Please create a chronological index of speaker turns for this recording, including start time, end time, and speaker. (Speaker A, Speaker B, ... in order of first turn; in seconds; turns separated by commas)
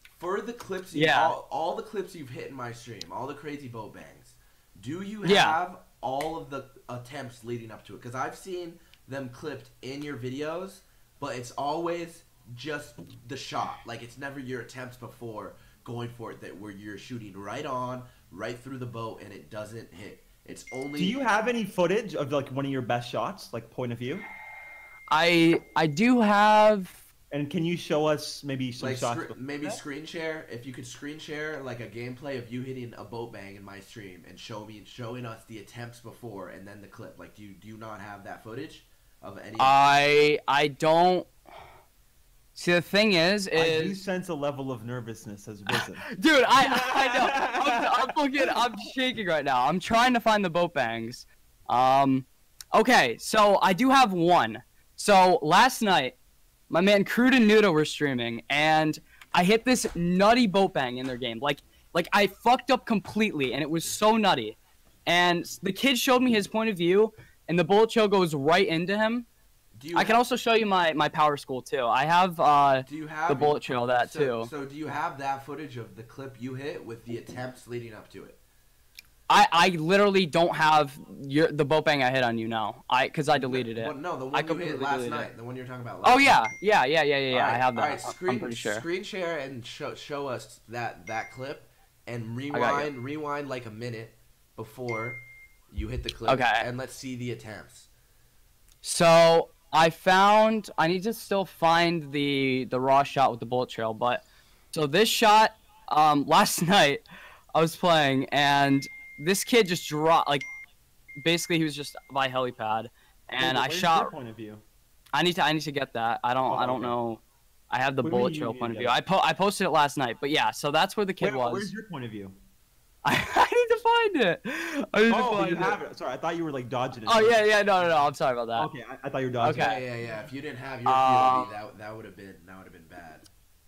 Speaker A: 0.2-21.2, Speaker B: 0.9-1.3, Speaker B: 5.2-5.6, Speaker C: 20.9-24.2, Speaker B: 25.1-27.0, Speaker C: 27.3-29.8, Speaker A: 28.8-39.8, Speaker B: 39.6-41.3, Speaker B: 42.5-44.0, Speaker C: 43.5-46.1, Speaker B: 45.7-56.2, Speaker C: 46.6-48.6, Speaker B: 56.7-69.3, Speaker A: 69.7-70.2, Speaker B: 69.9-74.5, Speaker A: 72.9-78.4, Speaker B: 79.3-85.3, Speaker A: 83.3-86.4, Speaker B: 86.0-88.8, Speaker A: 87.3-97.9, Speaker B: 92.5-92.9, Speaker B: 96.3-96.7, Speaker B: 98.8-107.0, Speaker B: 107.5-110.4, Speaker B: 111.2-114.1, Speaker C: 113.4-114.6, Speaker B: 115.1-121.7, Speaker C: 116.5-117.0, Speaker C: 118.0-119.0, Speaker C: 121.2-122.4, Speaker B: 123.0-125.8, Speaker C: 125.1-127.9, Speaker B: 127.1-128.7, Speaker C: 128.6-130.2, Speaker B: 129.4-129.8, Speaker A: 129.5-133.2, Speaker B: 130.8-131.5